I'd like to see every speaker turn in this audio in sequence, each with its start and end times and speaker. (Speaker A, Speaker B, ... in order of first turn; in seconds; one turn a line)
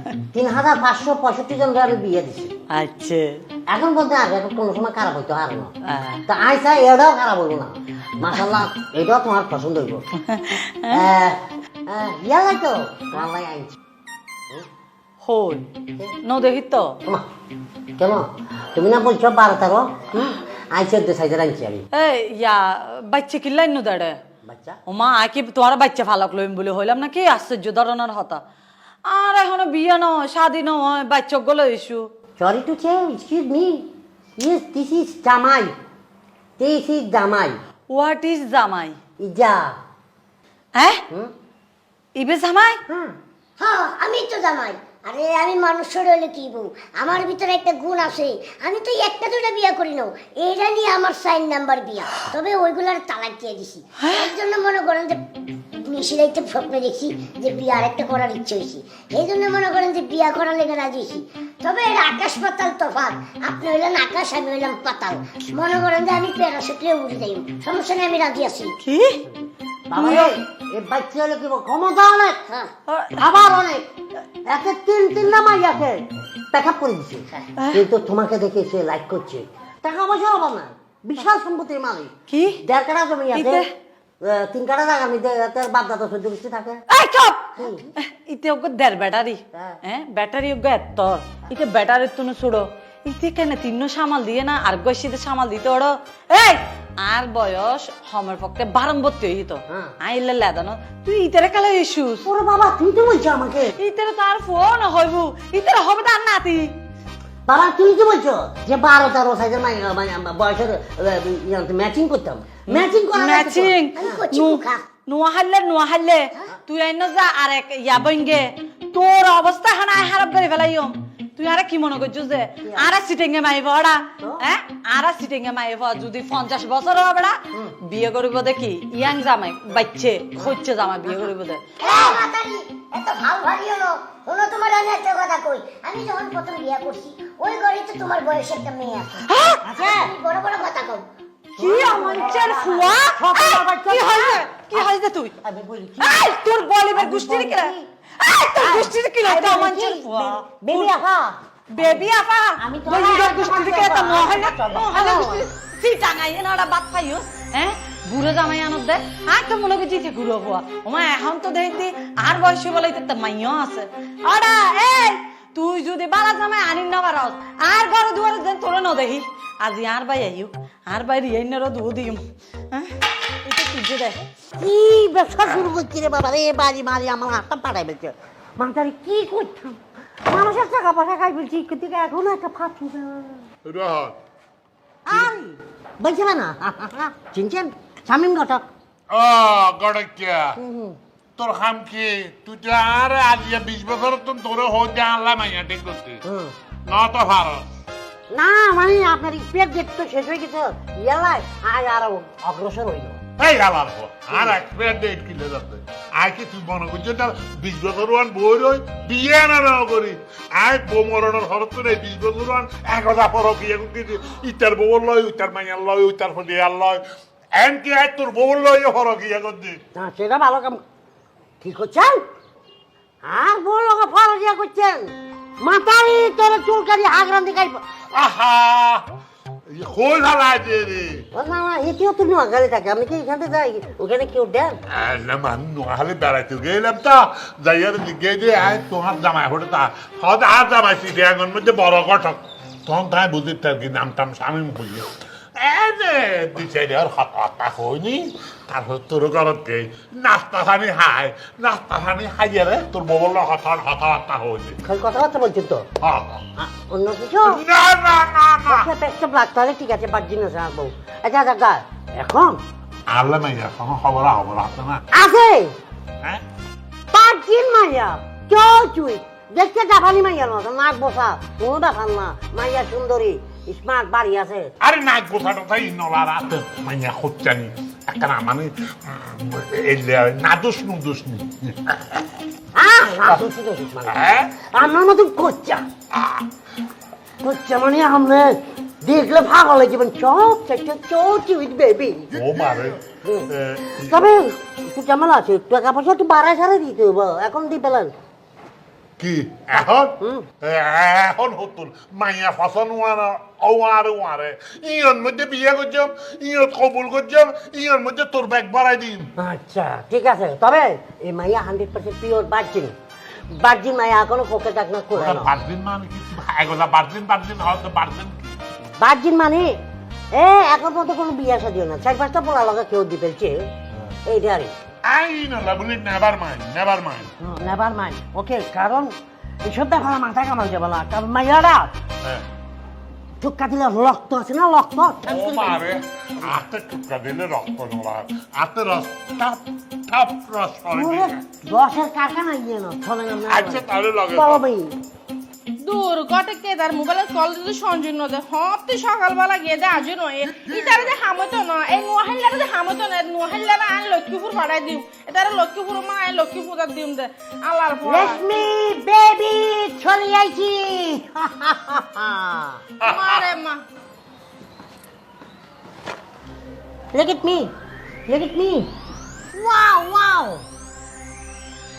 Speaker A: 0.3-2.6
Speaker B: 2.7-3.4
Speaker A: 3.7-5.7
Speaker B: 5.9-6.2
Speaker A: 6.3-10.0
Speaker B: 10.3-11.0
Speaker A: 10.9-13.7
Speaker B: 15.2-15.7
Speaker B: 16.2-17.0
Speaker A: 18.0-21.8
Speaker B: 21.9-24.2
Speaker A: 24.4-24.8
Speaker B: 24.9-28.4
Speaker B: 29.1-32.0
Speaker A: 32.4-33.9
Speaker A: 34.4-35.7
Speaker A: 36.6-37.6
Speaker B: 37.9-39.0
Speaker A: 39.2-39.7
Speaker B: 40.8-41.0
Speaker B: 42.2-42.8
Speaker A: 42.9-43.1
Speaker C: 43.6-68.8
Speaker B: 68.8-69.2
Speaker A: 69.3-73.9
Speaker B: 69.9-70.3
Speaker B: 72.9-73.3
Speaker A: 74.5-83.7
Speaker B: 77.6-77.8
Speaker B: 82.3-82.6
Speaker B: 83.3-83.7
Speaker A: 84.2-86.8
Speaker B: 86.9-102.3
Speaker A: 87.6-87.8
Speaker A: 89.5-89.8
Speaker A: 99.7-99.9
Speaker A: 102.2-103.7
Speaker B: 103.8-106.7
Speaker A: 107.5-114.2
Speaker B: 112.7-131.6
Speaker C: 114.0-114.8
Speaker A: 122.6-122.9
Speaker C: 131.8-139.2
Speaker B: 139.3-139.6
Speaker A: 139.6-140.1
Speaker C: 139.8-141.1
Speaker B: 141.6-145.3
Speaker A: 141.6-144.9
Speaker A: 145.4-146.3
Speaker B: 146.0-151.0
Speaker A: 146.9-147.9
Speaker A: 148.5-152.1
Speaker B: 151.7-174.2
Speaker A: 152.6-155.5
Speaker A: 174.6-183.4
Speaker D: 183.7-184.2
Speaker A: 185.1-188.7
Speaker D: 189.1-190.6
Speaker A: 190.6-191.0
Speaker D: 191.4-196.2
Speaker A: 196.3-196.5
Speaker D: 196.9-197.7
Speaker A: 198.3-203.2
Speaker D: 203.4-217.0
Speaker D: 217.6-219.8
Speaker A: 219.9-220.8
Speaker A: 221.6-222.2
Speaker A: 223.2-227.8
Speaker D: 228.1-229.0
Speaker D: 229.7-231.2
Speaker A: 231.3-234.8
Speaker D: 234.9-254.8
Speaker A: 254.9-255.9
Speaker D: 256.0-256.4
Speaker A: 256.6-257.6
Speaker D: 257.4-258.9
Speaker A: 258.7-262.6
Speaker D: 263.1-265.0
Speaker A: 265.1-265.7
Speaker A: 267.1-274.7
Speaker D: 274.8-282.2
Speaker A: 282.8-285.9
Speaker D: 284.1-284.5
Speaker A: 287.4-292.4
Speaker D: 292.3-294.2
Speaker A: 293.2-298.1
Speaker D: 299.2-309.3
Speaker A: 300.2-300.5
Speaker A: 309.4-312.9
Speaker A: 313.5-315.5
Speaker D: 315.1-318.6
Speaker A: 319.0-319.8
Speaker A: 320.3-323.7
Speaker A: 324.3-324.7
Speaker D: 325.1-327.3
Speaker A: 327.4-331.9
Speaker A: 333.4-335.9
Speaker D: 335.2-341.4
Speaker A: 340.9-344.9
Speaker D: 343.5-344.6
Speaker E: 345.8-358.4
Speaker D: 350.6-351.1
Speaker A: 358.0-362.8
Speaker D: 363.0-363.4
Speaker E: 363.0-363.8
Speaker A: 367.1-367.7
Speaker A: 368.3-368.9
Speaker A: 369.5-370.6